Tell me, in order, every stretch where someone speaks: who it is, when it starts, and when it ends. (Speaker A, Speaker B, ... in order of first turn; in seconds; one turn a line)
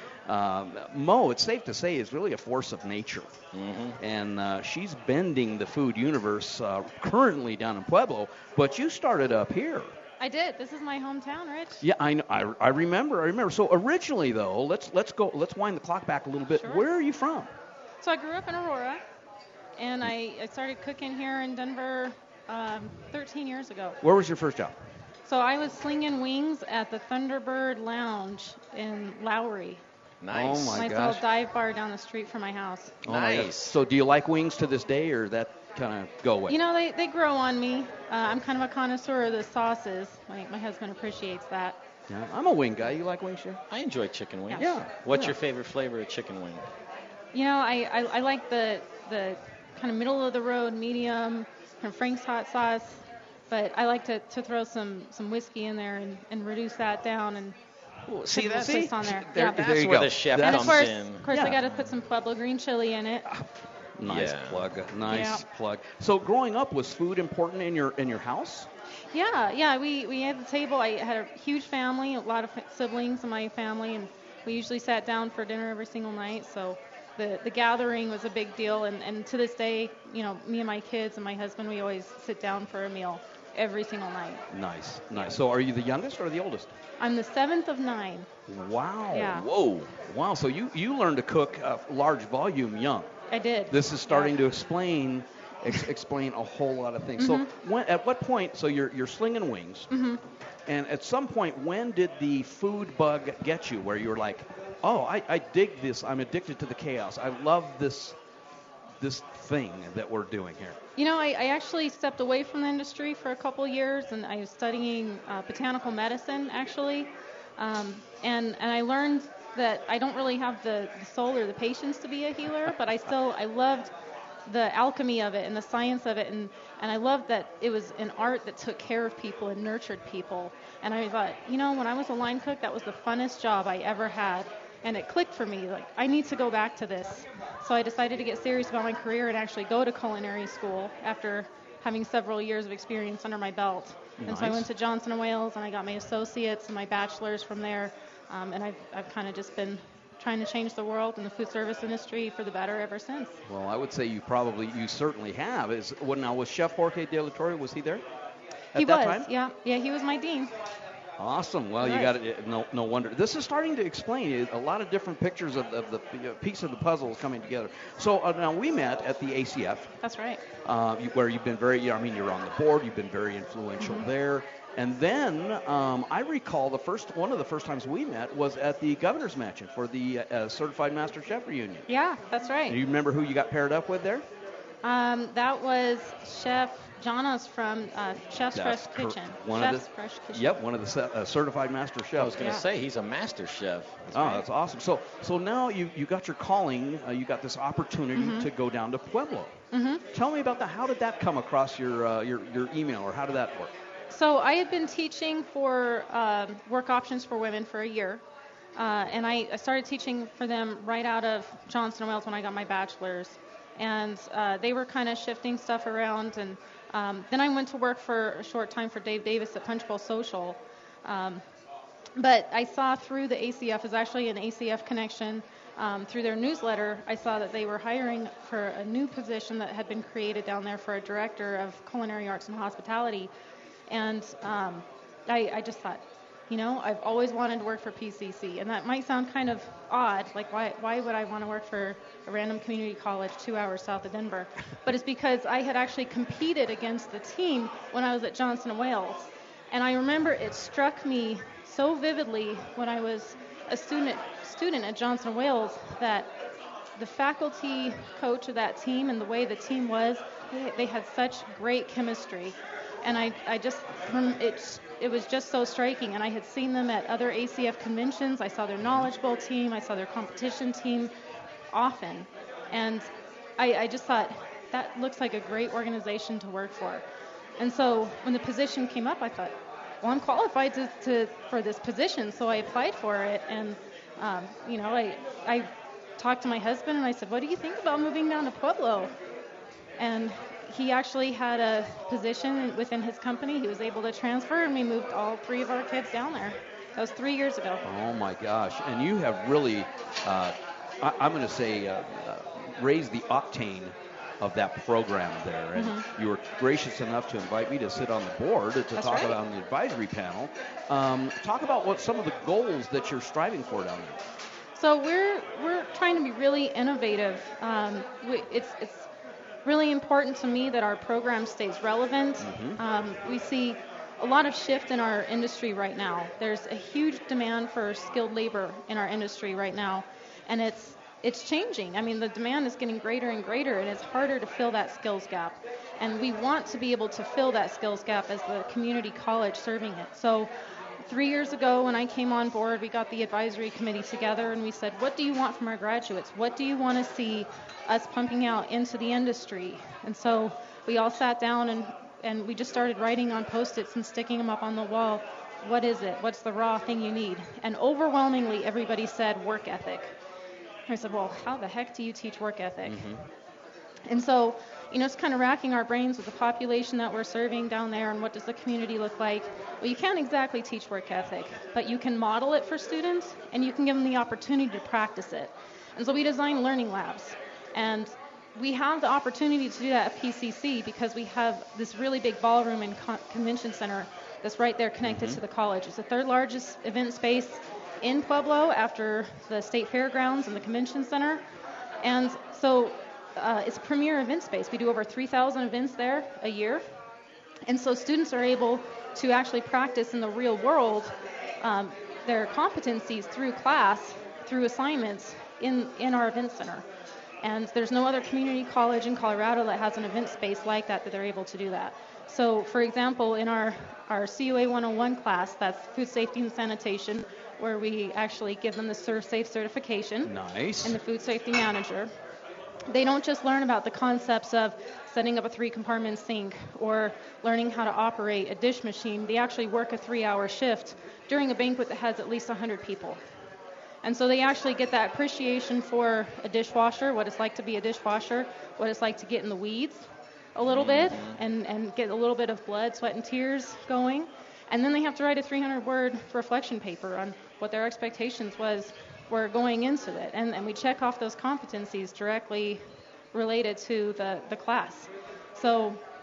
Speaker A: 0.3-3.3
Speaker B: 3.5-4.0
Speaker A: 4.0-9.9
Speaker C: 10.2-11.8
Speaker A: 11.8-17.5
Speaker C: 16.6-16.9
Speaker C: 18.0-19.0
Speaker C: 19.8-24.0
Speaker A: 24.0-24.8
Speaker C: 25.3-29.8
Speaker B: 30.2-30.8
Speaker A: 30.3-31.2
Speaker C: 30.8-33.0
Speaker A: 33.0-36.6
Speaker B: 33.1-33.8
Speaker C: 36.5-41.8
Speaker A: 42.1-43.6
Speaker B: 43.7-46.6
Speaker A: 44.6-45.4
Speaker C: 47.3-57.6
Speaker B: 58.1-58.8
Speaker C: 58.3-59.7
Speaker A: 58.4-61.6
Speaker B: 59.4-61.8
Speaker C: 60.4-63.2
Speaker A: 64.0-68.7
Speaker B: 64.1-64.7
Speaker C: 65.1-65.4
Speaker C: 69.1-84.4
Speaker A: 84.5-86.7
Speaker C: 87.0-88.3
Speaker A: 88.5-89.5
Speaker C: 89.1-89.5
Speaker B: 89.4-89.9
Speaker A: 90.1-93.1
Speaker C: 93.3-94.3
Speaker A: 93.7-99.9
Speaker C: 97.2-97.5
Speaker C: 99.9-100.2
Speaker A: 100.7-108.2
Speaker A: 109.0-110.8
Speaker C: 111.0-123.9
Speaker C: 124.5-153.3
Speaker A: 144.2-144.7
Speaker A: 153.5-158.0
Speaker A: 158.8-159.3
Speaker C: 158.8-160.5
Speaker A: 161.2-169.9
Speaker C: 161.8-162.1
Speaker C: 170.0-170.4
Speaker A: 170.7-181.8
Speaker C: 173.8-174.1
Speaker C: 181.9-182.8
Speaker A: 182.7-184.2
Speaker C: 184.8-190.5
Speaker A: 188.5-192.4
Speaker B: 192.2-194.1
Speaker A: 194.1-199.5
Speaker C: 194.2-194.4
Speaker C: 198.1-198.5
Speaker C: 199.7-200.0
Speaker A: 200.1-203.7
Speaker C: 204.1-208.2
Speaker C: 208.8-221.4
Speaker C: 222.2-233.3
Speaker C: 233.9-256.3
Speaker C: 257.0-271.1
Speaker C: 271.7-277.0
Speaker C: 277.6-289.1
Speaker C: 290.0-297.8
Speaker A: 297.8-314.2
Speaker C: 305.8-306.0
Speaker C: 309.0-309.4
Speaker C: 314.8-319.1
Speaker C: 319.6-340.5
Speaker A: 322.4-322.8
Speaker C: 341.0-360.1
Speaker C: 360.9-363.1
Speaker A: 362.9-363.2
Speaker C: 364.1-391.4
Speaker A: 385.1-385.4
Speaker C: 392.0-396.8
Speaker C: 397.7-406.9
Speaker C: 407.4-420.3
Speaker A: 420.2-421.0
Speaker C: 420.8-422.1
Speaker C: 422.9-433.2
Speaker C: 434.0-456.0
Speaker B: 440.7-441.4